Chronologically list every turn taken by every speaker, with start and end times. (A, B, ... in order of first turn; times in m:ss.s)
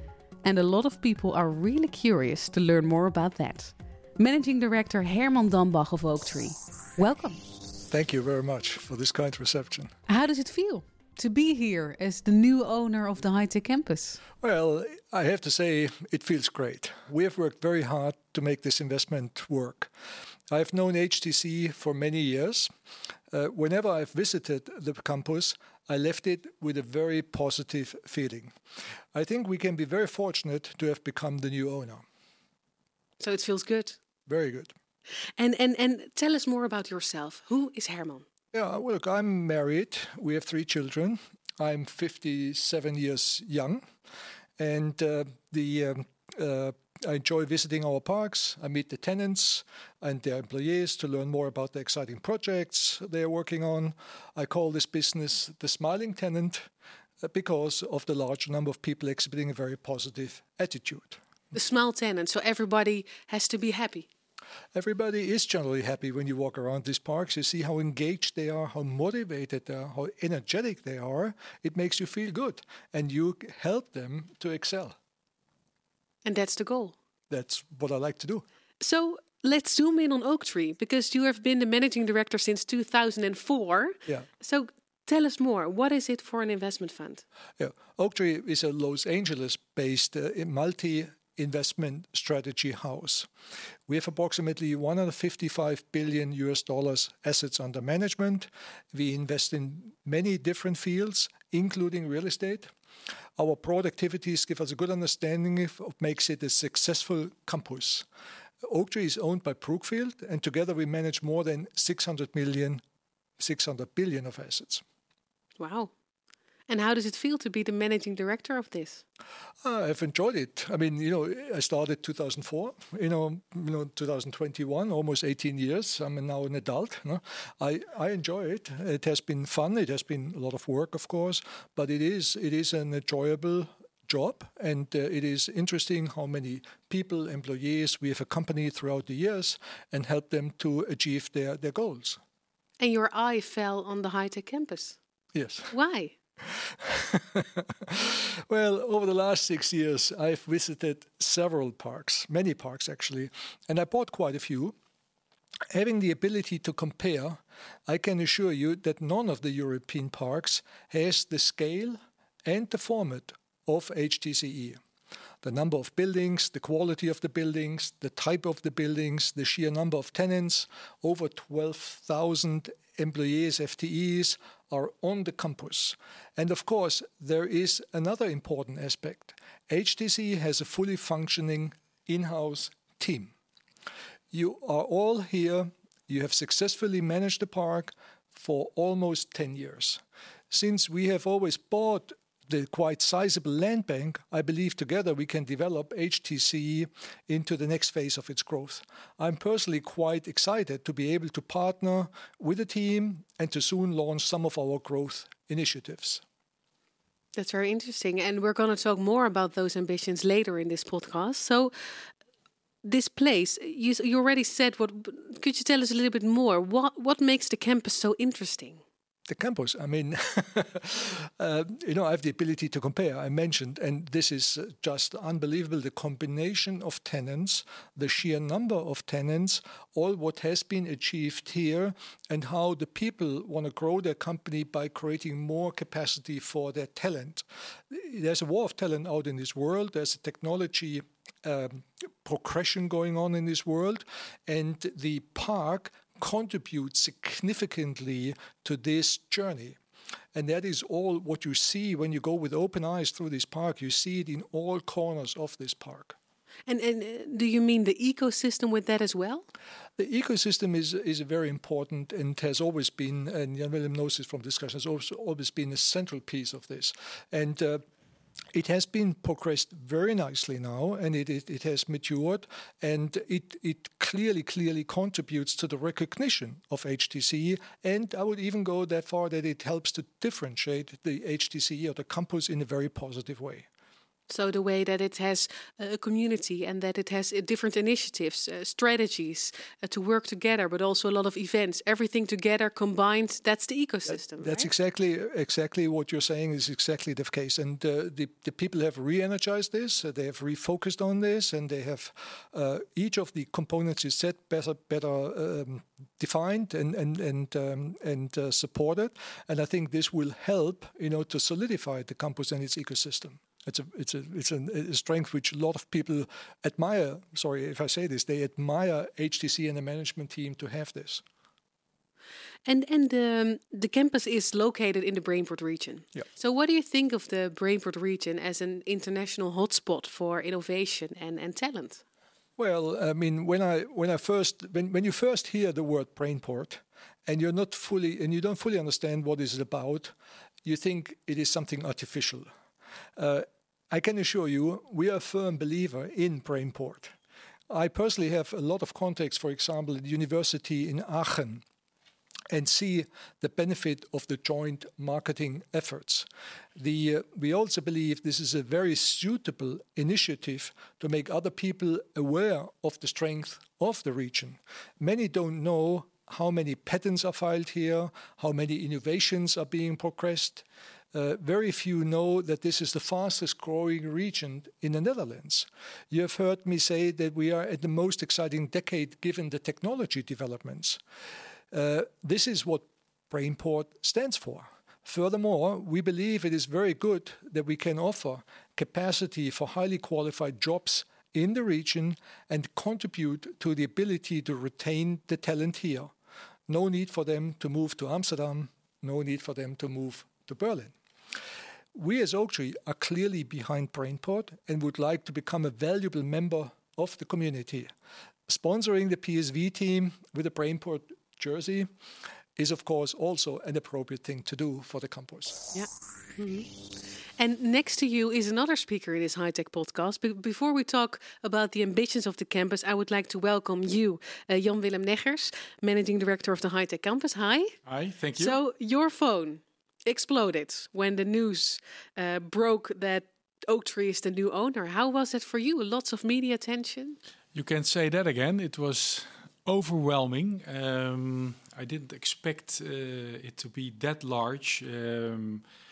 0:00.4-0:07.4 A
0:07.9-0:09.9 B
0:10.1-0:14.2 A
0:14.4-0:19.9 B
0:20.5-0:22.7 B
0:23.3-0:28.5 B
0:29.1-0:32.0 B
0:33.2-0:34.0 A
0:34.3-0:34.7 B
0:35.4-0:38.2 A
0:38.5-0:43.8 B
0:44.6-0:56.7 B
0:57.2-1:01.2 B
1:01.5-1:04.1 A
1:04.7-1:15.0 B
1:16.2-1:17.0 A
1:17.3-1:18.4 B
1:18.8-1:27.2 A
1:27.6-1:33.3 B
1:33.9-1:42.7 B
1:43.4-1:48.1 B
1:48.6-1:52.8 B
1:53.4-1:54.8 B
1:55.6-1:55.9 A
1:56.7-1:59.0 A
1:59.6-2:22.2 B
2:22.8-2:25.0 A
2:25.3-2:25.7 B
2:25.7-2:26.2 A
2:26.9-2:34.8 B
2:35.7-2:44.8 B
2:45.4-3:03.3 B
3:04.3-3:26.2 B
3:27.4-3:31.7 A
3:32.8-3:38.8 A
3:39.3-4:09.8 B
4:10.3-4:16.2 B
4:16.7-4:19.4 A
4:20.0-4:27.8 B
4:28.5-4:43.6 B
4:44.3-4:54.7 A
4:54.1-5:21.2 B
5:22.6-5:32.0 A
5:32.6-5:40.1 B
5:40.6-5:42.5 B
5:43.2-5:47.1 B
5:47.7-5:51.6 B
5:52.5-6:21.0 B
6:21.7-6:36.1 B
6:36.7-6:40.9 B
6:41.9-6:47.9 B
6:48.5-6:51.9 B
6:52.6-6:55.6 B
6:55.7-6:56.7 A
6:57.4-7:07.7 A
7:07.8-7:08.6 C
7:08.4-7:17.2 A
7:17.5-7:25.6 C